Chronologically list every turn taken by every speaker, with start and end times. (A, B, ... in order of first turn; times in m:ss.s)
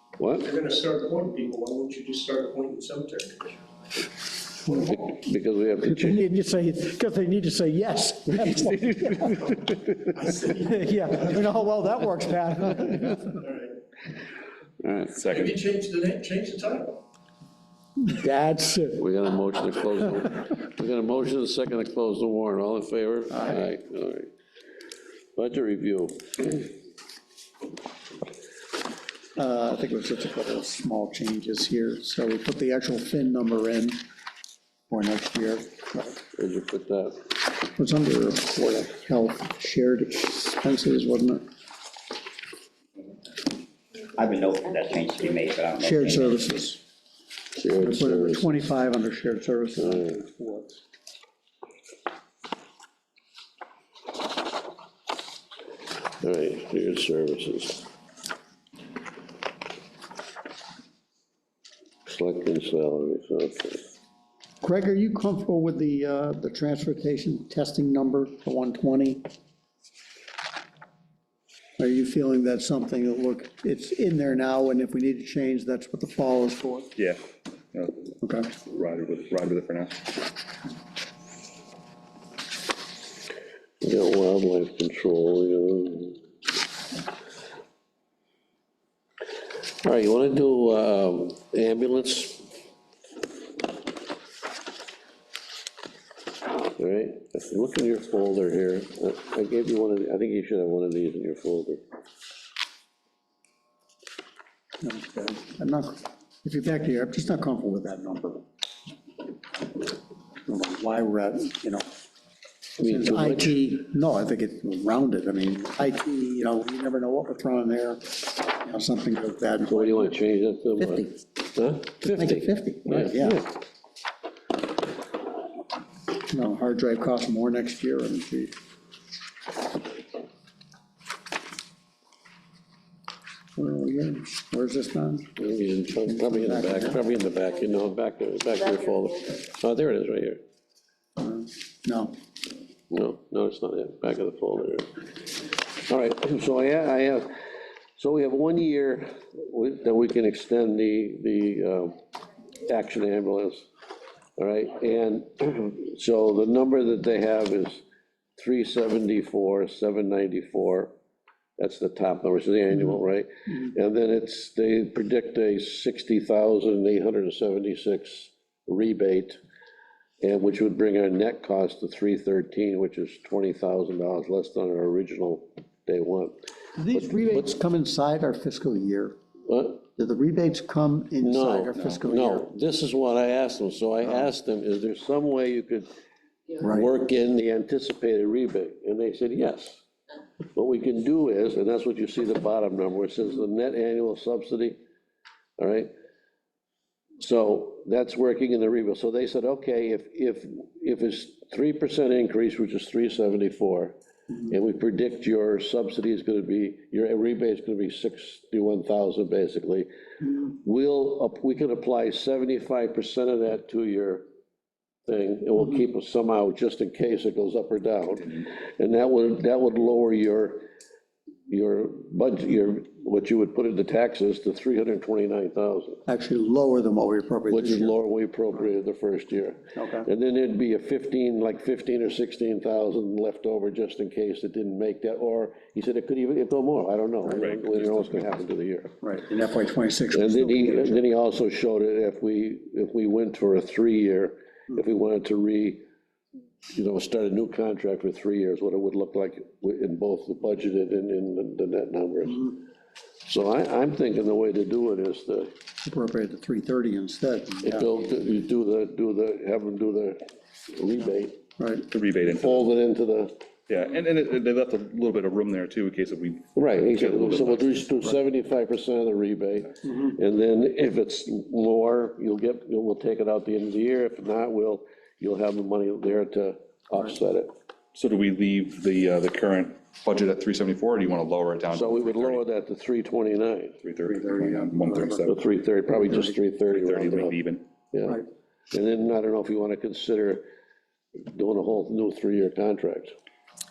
0:00.2-0:00.5 A
0:00.4-0:03.6 B
0:04.6-0:06.2 A
0:05.8-0:09.6 C
0:08.3-0:10.1 A
0:10.3-0:10.8 B
0:10.5-0:13.4 C
0:13.4-0:13.7 B
0:14.8-0:15.2 A
0:15.1-0:15.6 D
0:15.2-0:17.0 B
0:18.0-0:19.0 C
0:19.0-0:24.3 A
0:25.4-0:26.7 A
0:29.4-0:34.0 C
0:34.9-0:36.2 C
0:36.4-0:37.2 A
0:37.7-0:41.4 C
0:44.1-0:46.7 E
0:45.8-0:46.8 C
0:47.6-0:48.5 A
0:47.8-0:50.8 C
0:49.8-0:50.1 A
0:56.2-0:57.9 A
1:02.0-1:04.0 A
1:04.6-1:09.3 C
1:11.8-1:16.9 C
1:17.7-1:18.1 D
1:18.2-1:18.5 C
1:18.6-1:20.1 D
1:23.8-1:26.2 A
1:29.8-1:32.5 A
1:36.7-1:41.8 A
1:44.8-1:48.4 C
1:50.4-1:51.8 C
1:52.8-1:53.6 A
1:52.8-2:00.1 C
1:59.7-2:03.5 A
2:00.8-2:01.1 C
2:02.0-2:03.4 C
2:06.3-2:08.5 C
2:13.6-2:15.3 C
2:15.4-2:20.4 A
2:16.1-2:17.0 C
2:21.2-2:22.2 C
2:22.9-2:24.9 A
2:25.8-2:27.3 A
2:28.0-2:32.0 A
2:32.6-2:33.7 A
2:34.4-2:37.8 A
2:38.4-2:40.9 A
2:41.6-2:49.4 A
2:50.2-2:56.4 A
2:56.8-2:59.2 C
2:56.9-2:57.4 A
2:59.5-2:59.8 A
3:00.0-3:02.5 C
3:01.2-3:05.9 A
3:06.6-3:06.9 C
3:06.6-3:09.8 A
3:10.5-3:14.8 A
3:15.6-3:15.9 A
3:17.2-3:34.2 A
3:35.1-3:40.6 A
3:41.5-3:46.0 A
3:46.1-3:47.9 C
3:47.5-3:58.9 A
3:49.7-3:50.1 C
3:57.3-3:58.4 D
3:59.0-4:01.0 C
4:00.1-4:05.8 A
4:06.7-4:12.6 A
4:13.2-4:15.5 A
4:15.8-4:17.9 C
4:17.6-4:21.4 A
4:21.6-4:21.8 C
4:21.9-4:22.7 D
4:22.2-4:23.3 A
4:23.7-4:28.1 D
4:26.6-4:37.5 A
4:37.9-4:42.4 D
4:41.7-4:43.8 A
4:43.8-4:45.4 D
4:44.0-4:45.3 C
4:45.2-4:47.4 A
4:46.7-4:47.6 D
4:47.9-4:50.4 A
4:51.2-4:53.1 A